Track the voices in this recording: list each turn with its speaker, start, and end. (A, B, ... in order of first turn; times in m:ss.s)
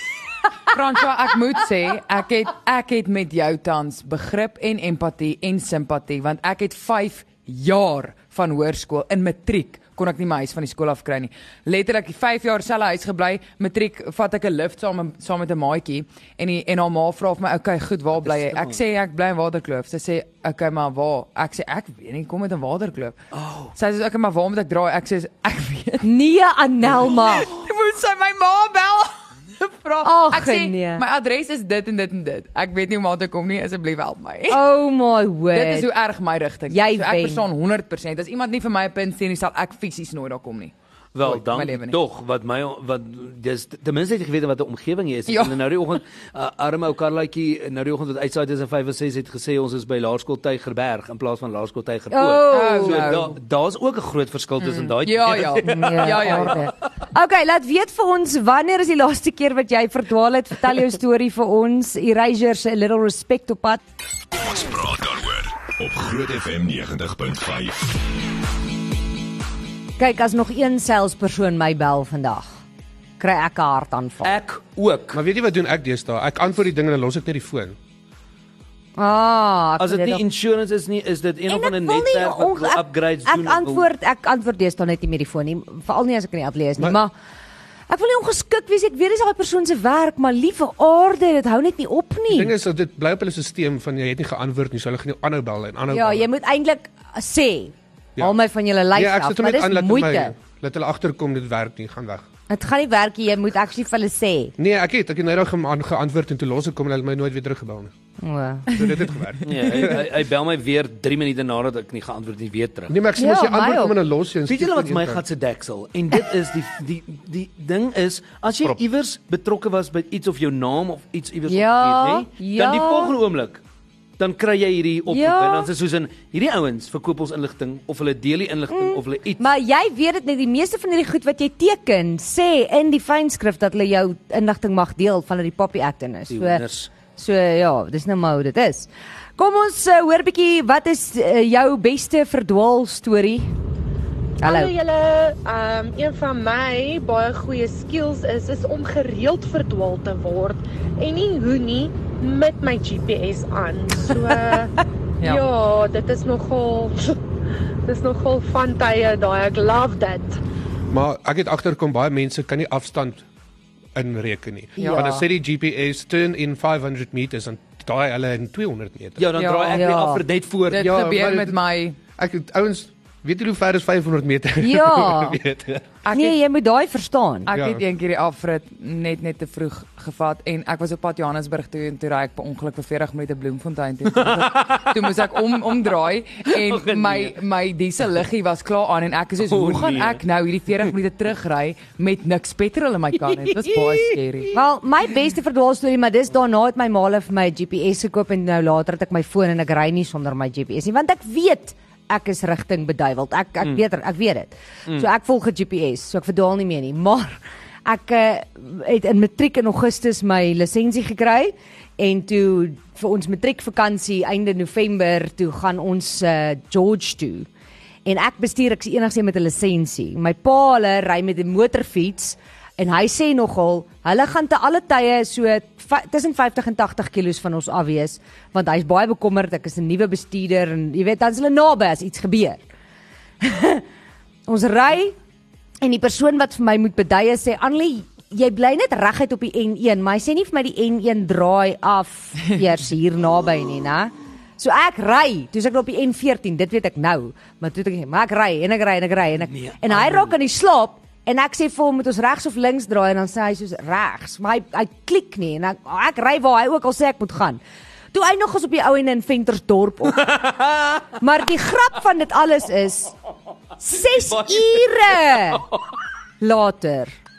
0:00.7-0:23.2 A
0:18.2-0:18.8 B
0:23.3-0:23.7 B
0:23.8-0:26.1 A
0:26.0-0:27.5 C
0:27.1-0:34.6 A
0:30.0-0:31.0 C
0:34.5-0:35.9 C
0:35.5-0:42.0 A
0:36.7-0:37.4 C
0:41.1-0:56.7 B
0:45.3-0:45.6 A
0:52.1-0:53.1 C
0:52.5-0:53.3 A
0:54.6-0:56.7 A
0:55.6-1:03.8 C
1:04.4-1:08.0 D
1:10.0-1:12.5 C
1:13.2-1:14.3 C
1:14.2-1:15.2 B
1:15.1-1:17.8 E
1:19.0-1:20.2 C
1:19.8-1:23.9 B
1:21.5-1:27.1 C
1:27.9-1:32.5 C
1:32.3-1:36.3 E
1:35.9-1:40.3 C
1:38.9-1:42.2 E
1:42.5-1:44.5 C
1:44.6-1:47.9 E
1:48.2-1:48.7 C
1:48.7-1:50.0 E
1:49.4-1:52.9 B
1:52.9-1:55.2 E
1:53.2-1:53.9 C
1:54.5-2:03.6 B
2:01.5-2:03.1 C
2:04.2-2:09.5 B
2:05.1-2:05.7 C
2:08.7-2:16.6 C
2:16.3-2:16.9 B
2:17.2-2:23.5 C
2:24.4-2:24.8 C
2:24.4-2:37.2 F
2:37.8-2:40.4 F
2:40.9-2:43.2 E
2:43.9-2:49.3 E
2:44.8-2:45.2 A
2:44.9-2:45.2 C
2:49.2-2:51.0 B
2:49.3-2:50.0 A
2:49.7-2:50.2 C
2:50.7-2:52.0 A
2:50.8-2:51.6 E
2:52.2-2:55.8 E
2:54.6-2:55.4 C
2:56.0-2:56.4 A
2:56.1-2:57.5 C
2:57.5-3:14.5 A
2:57.5-2:57.8 E
3:04.0-3:05.3 B
3:06.5-3:07.4 B
3:09.4-3:10.2 B
3:13.5-3:14.5 B
3:14.5-3:37.5 C
3:38.0-3:52.6 C
3:53.4-3:53.8 C
3:54.5-3:55.2 C
3:55.8-4:17.6 C
4:09.5-4:10.3 B
4:18.1-4:20.3 C
4:20.1-4:21.1 B
4:21.2-4:23.1 C
4:23.8-4:25.6 C
4:24.1-4:25.8 B
4:26.4-4:27.1 C